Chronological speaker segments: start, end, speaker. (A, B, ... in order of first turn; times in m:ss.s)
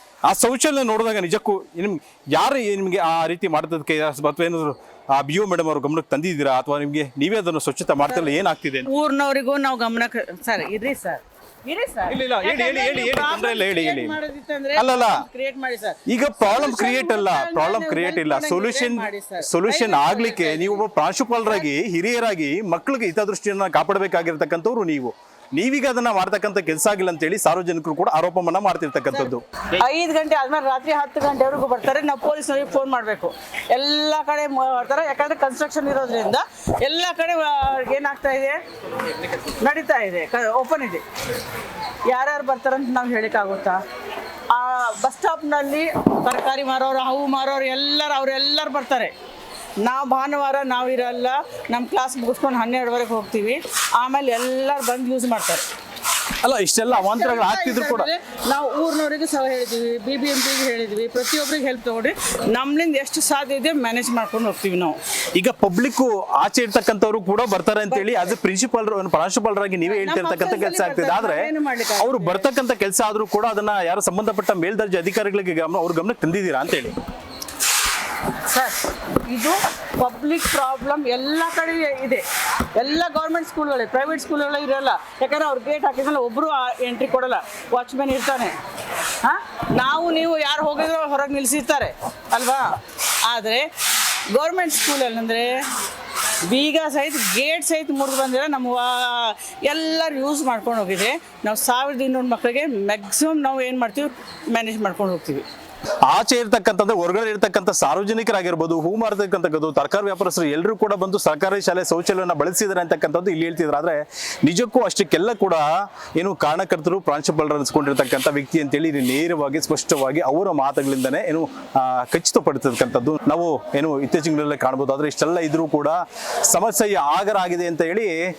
0:00.3-0:08.9 A
0:08.9-0:20.8 B
0:12.1-0:14.2 A
0:14.8-0:15.2 A
0:16.1-0:29.4 A
0:29.1-0:38.6 B
0:39.6-0:41.0 B
0:42.1-0:43.8 B
0:44.5-0:49.1 B
0:49.8-0:55.6 B
0:56.4-0:58.1 A
0:56.9-1:05.0 B
1:05.4-1:16.9 A
1:07.9-1:08.3 B
1:09.9-1:12.5 B
1:18.5-1:22.2 B
1:22.8-1:28.6 B
1:29.2-1:32.8 B
1:33.3-1:33.6 B
1:34.4-1:35.6 B
1:36.5-1:45.4 B
1:46.1-1:55.6 A
1:56.2-2:08.2 A